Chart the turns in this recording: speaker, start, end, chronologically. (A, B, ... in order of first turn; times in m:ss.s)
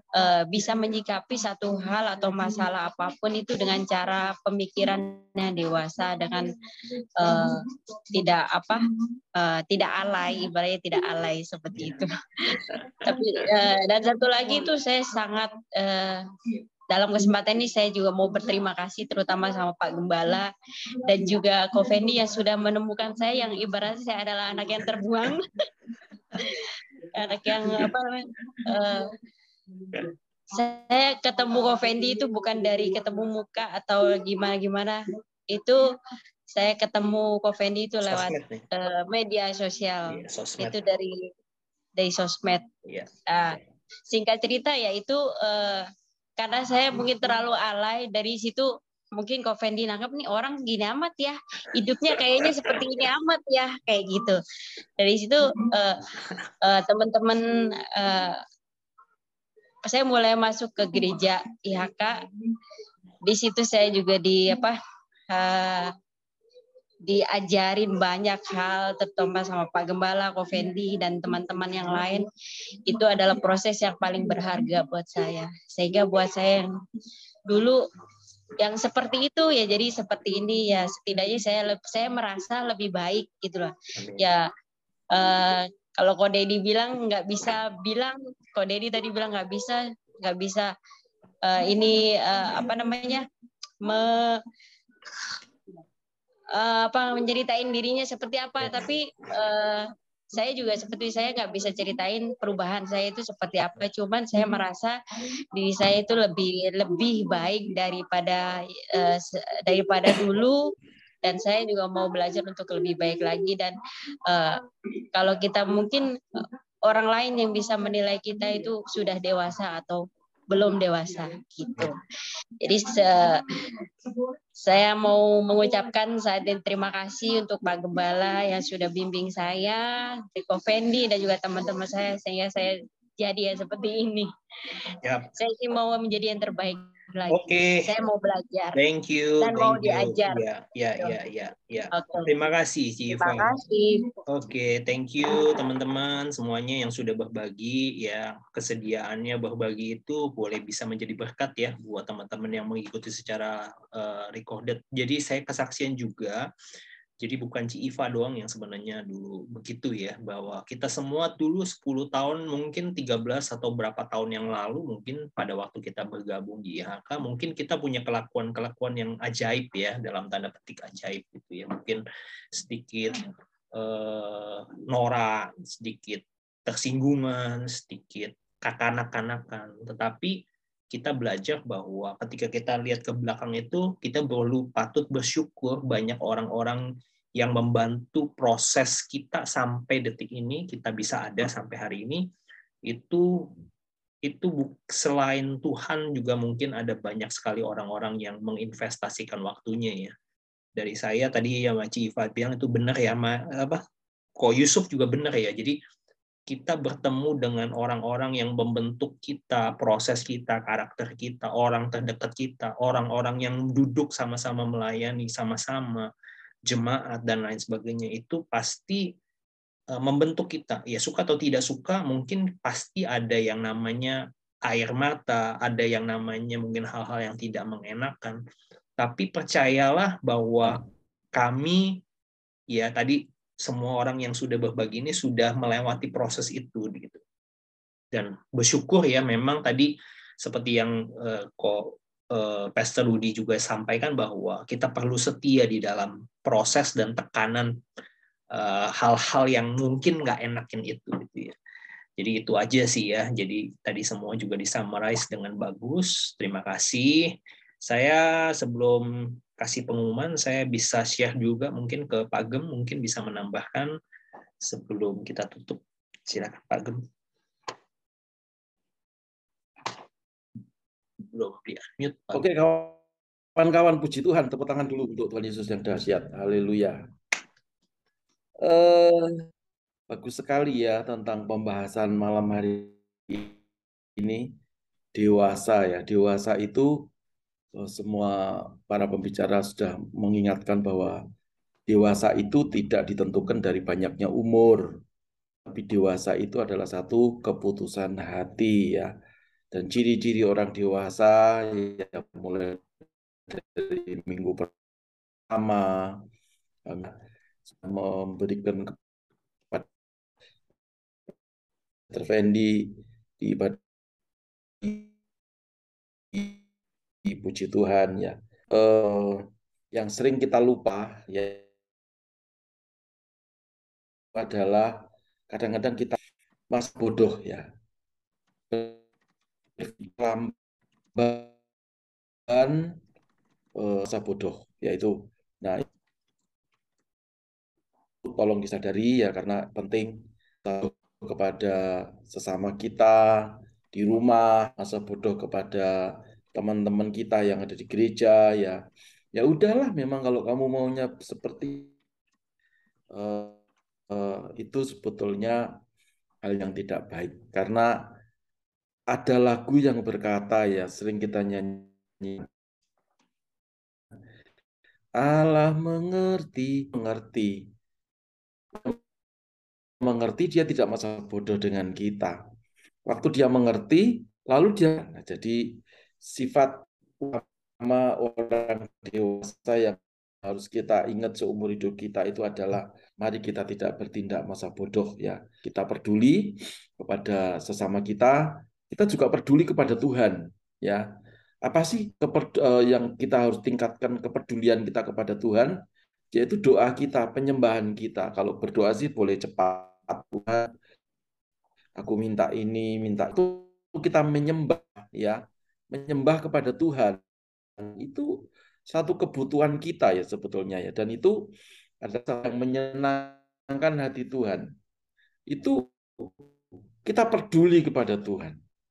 0:00.1-0:06.5 A
0:07.2-0:16.2 A
0:12.6-0:13.2 B
0:16.9-0:20.5 A
0:21.0-0:25.5 A
0:26.4-0:29.1 A
0:30.5-0:35.8 A
0:36.5-0:41.3 A
0:38.1-0:38.6 B
0:40.1-0:40.8 B
0:42.0-0:42.6 A
0:43.3-0:54.4 A
0:52.1-0:52.8 B
0:55.0-0:56.1 A
0:56.6-0:58.4 A
0:59.8-1:02.2 A
1:03.2-1:04.8 A
1:05.3-1:05.9 A
1:07.1-1:12.3 A
1:12.8-1:16.7 A
1:17.5-1:17.8 A
1:18.6-1:24.5 A
1:24.0-1:24.3 B
1:25.1-1:30.7 A
1:31.4-1:33.3 A
1:33.8-1:34.4 A
1:36.5-1:45.0 A
1:45.5-2:02.0 A
2:02.6-2:03.8 A
2:04.6-2:14.3 A
2:15.0-2:15.3 B
2:15.3-2:18.8 A
2:17.3-2:17.8 B
2:18.7-2:23.4 B
2:19.4-2:20.4 A
2:21.9-2:22.3 A
2:23.1-2:24.0 A
2:24.3-2:36.4 B
2:37.2-2:52.0 B
2:52.5-2:53.2 B
2:53.7-3:00.4 B
3:00.9-3:06.8 B
3:07.4-3:12.2 B
3:12.9-3:13.5 B
3:14.2-3:20.1 B
3:20.8-3:23.8 B
3:24.4-3:25.8 B
3:26.5-3:36.1 B
3:36.7-3:39.1 B
3:39.9-3:48.4 B
3:49.0-3:50.8 B
3:51.4-3:52.0 B
3:52.7-3:57.2 B
3:58.1-4:07.7 B
4:08.5-4:11.5 B
4:12.2-4:17.3 B
4:17.8-4:19.0 B
4:19.6-4:23.9 B
4:24.6-4:27.0 B
4:31.3-4:32.4 B
4:32.3-4:33.0 C
4:33.6-4:37.0 C
4:38.6-4:39.3 C
4:40.1-4:43.6 C
4:44.2-4:44.5 C
4:45.1-4:47.1 C
4:47.7-4:51.2 C
4:51.9-4:55.0 C
4:55.7-4:59.1 C
4:59.7-5:02.9 C
5:03.5-5:04.7 C
5:05.5-5:06.2 C
5:06.8-5:07.1 C
5:07.8-5:09.0 C
5:12.1-5:13.8 C
5:14.8-5:15.1 C
5:16.3-5:16.6 C
5:17.2-5:21.6 C
5:24.3-5:26.2 C
5:26.7-5:27.7 C
5:28.7-5:29.0 C
5:29.8-5:30.5 C
5:31.2-5:31.5 C
5:32.5-5:32.9 C
5:33.7-5:35.8 C
5:38.2-5:48.8 C
5:49.3-5:51.9 C
5:53.1-5:53.6 C
5:54.1-5:55.7 C
5:56.4-5:58.1 C
5:59.1-6:02.5 C
6:05.2-6:07.7 C
6:08.7-6:09.0 C
6:10.0-6:12.4 C
6:13.0-6:31.0 C
6:31.6-6:40.7 C
6:42.0-6:45.4 C
6:45.9-6:47.2 C
6:47.8-6:48.3 C
6:48.9-6:54.7 C
6:55.5-6:56.3 C
6:57.0-6:58.6 C